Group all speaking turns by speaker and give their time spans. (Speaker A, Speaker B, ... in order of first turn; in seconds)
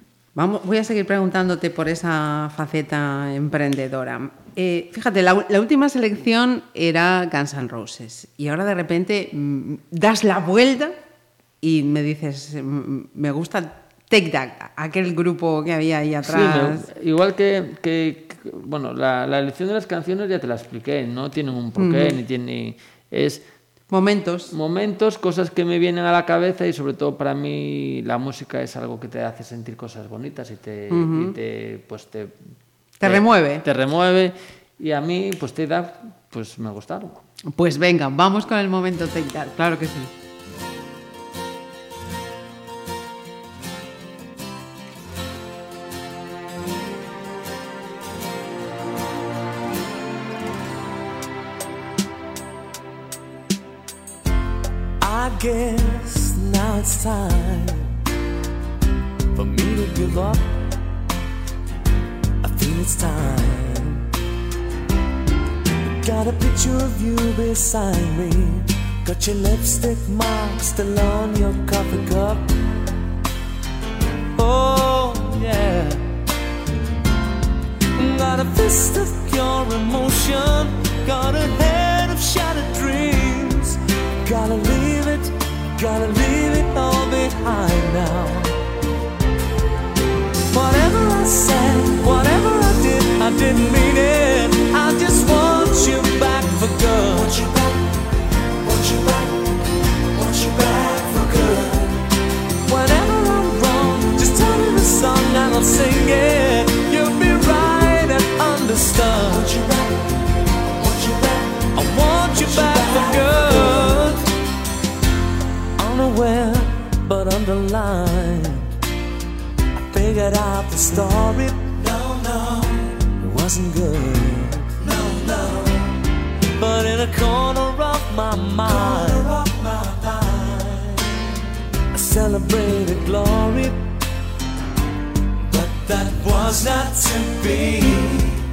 Speaker A: 0.3-10.9, 11.6-16.8, 21.8-22.2, 23.9-24.5, 30.9-31.3, 33.0-33.6, 37.5-40.1
Speaker B: 16.2-23.4, 24.5-32.4, 33.0-37.2
Speaker C: 55.0-57.8, 59.4-60.4, 62.4-64.0, 66.0-72.5, 74.4-76.0, 78.0-88.5, 90.5-97.5, 98.8-99.2, 100.3-101.8, 102.7-109.7, 111.7-114.2, 115.8-118.6, 119.8-121.8, 122.3-122.7, 123.2-125.7, 126.6-130.9, 131.9-133.8, 135.5-138.3